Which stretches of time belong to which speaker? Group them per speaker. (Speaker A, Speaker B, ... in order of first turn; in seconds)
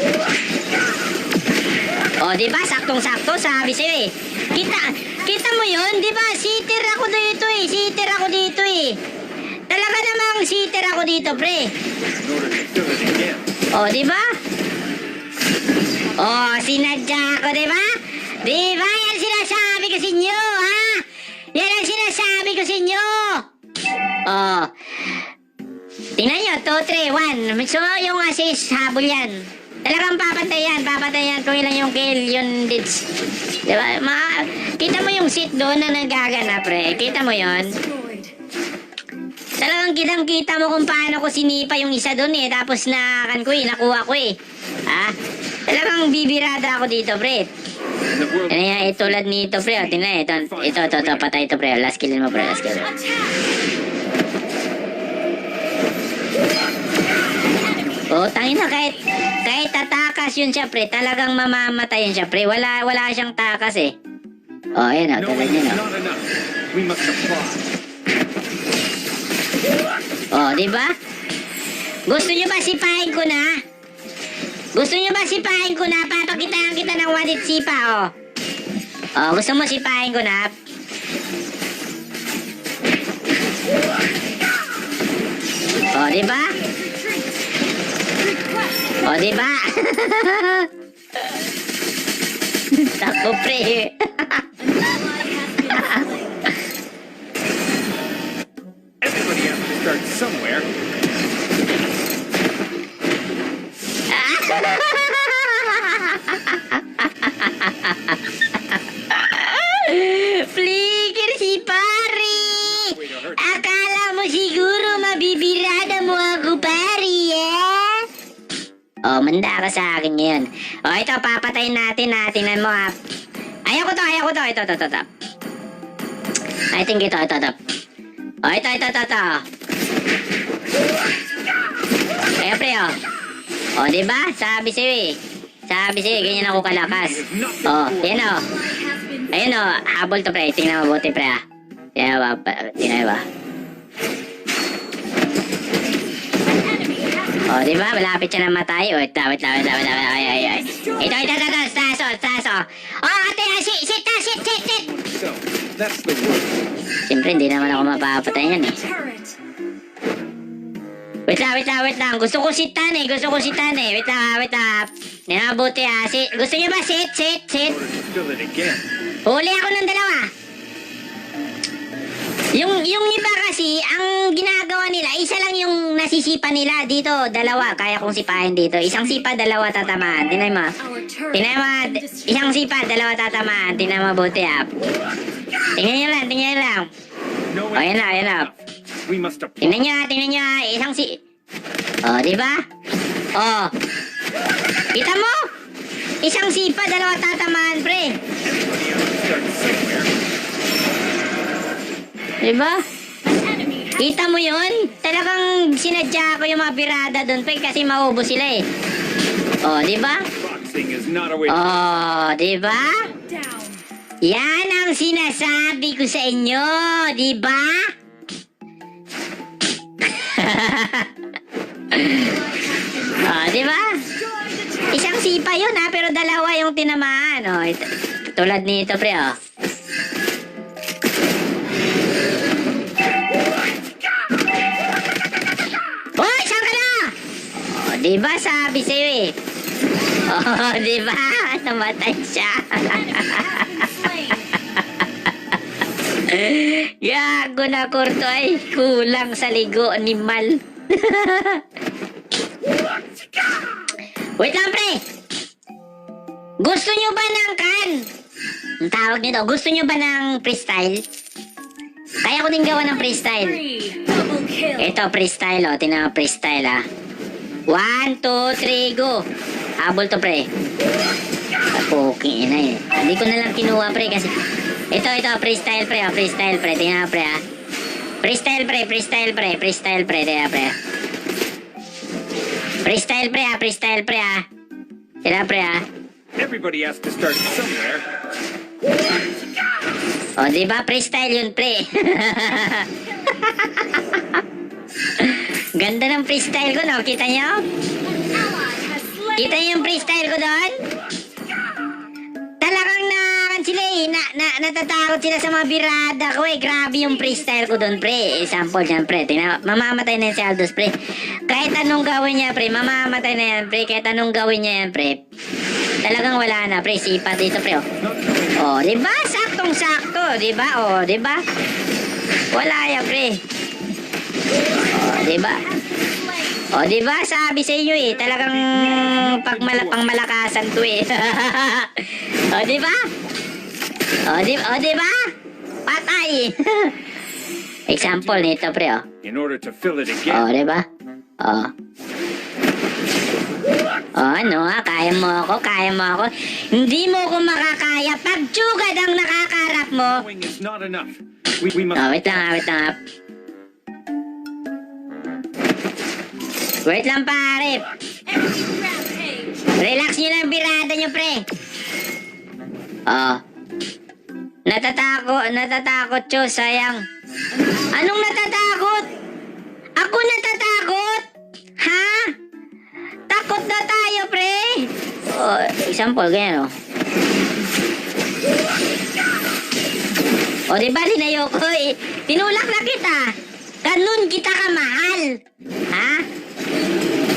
Speaker A: 2.2-9.0, 9.7-11.7, 13.7-14.2, 16.2-17.9, 18.4-23.4, 24.3-25.2, 26.2-33.0, 33.7-37.7, 39.6-44.3, 44.9-45.1, 45.7-47.5, 48.5-52.9, 58.1-63.9, 64.8-65.8, 70.3-70.9, 72.1-73.6, 74.8-78.1, 79.2-80.5, 85.9-86.6, 89.0-90.7, 92.7-94.5, 95.7-96.0, 104.1-118.1, 119.1-122.9, 123.7-125.1, 126.7-127.6, 128.4-129.4, 132.4-132.9, 133.8-135.2, 135.7-138.5, 139.3-141.4, 142.0-143.2, 147.5-154.9, 157.1-158.8, 161.3-167.8, 169.3-170.3, 172.6-180.8, 181.3-184.7, 185.8-186.9, 187.8-188.5, 189.6-191.2, 192.0-192.6, 193.4-193.7, 194.9-195.4, 196.2-198.2, 202.4-202.8, 204.0-208.6, 209.6-210.3, 211.5-213.1, 214.3-217.9, 220.0-221.1, 221.9-222.3, 223.2-224.0, 224.9-229.3, 236.2-239.3, 240.3-243.8, 244.8-245.0, 246.3-251.6, 254.4-255.0, 256.6-258.1, 258.8-261.0, 262.2-263.6, 264.8-266.8, 267.7-269.2, 269.8-270.5, 271.7-274.3, 274.9-277.4, 278.2-280.8, 282.8-284.4, 285.2-285.8, 290.4-294.4, 295.1-297.7, 299.4-300.8, 302.6-310.9, 311.5-315.2, 316.0-317.9, 318.6-321.4, 322.5-323.4, 324.9-325.6, 326.7-333.0, 334.3-335.2, 335.9-336.9, 337.9-339.0, 340.3-340.8, 341.4-341.7, 344.2-350.2, 352.0-353.0, 356.9-357.8, 359.8-361.4, 363.1-363.4, 364.7-367.0, 367.9-369.1, 370.0-371.2, 371.8-372.3, 373.3-376.7, 380.7-383.3, 383.8-385.4, 385.9-386.2
Speaker B: 4.8-5.2, 37.3-38.3, 52.6-53.4, 57.5-58.1, 86.5-87.5, 88.2-89.0, 94.6-96.5, 138.3-139.5, 146.5-147.5, 150.2-151.2, 157.3-159.4, 180.8-182.6, 203.2-204.1, 213.3-213.8, 222.1-223.6, 224.1-225.1, 242.9-244.5, 263.3-264.9, 293.2-293.6, 298.1-300.1, 307.2-308.4, 325.3-326.7, 358.3-359.7, 367.5-369.2
Speaker C: 12.0-13.5, 48.1-51.3, 65.2-67.6, 99.0-100.7, 112.3-113.7, 136.1-138.3, 154.8-156.6, 167.6-168.9, 187.5-189.8, 198.4-200.1, 210.4-211.7, 286.4-288.1, 318.0-318.7, 328.0-330.1, 338.0-338.5, 339.2-340.5, 350.1-352.2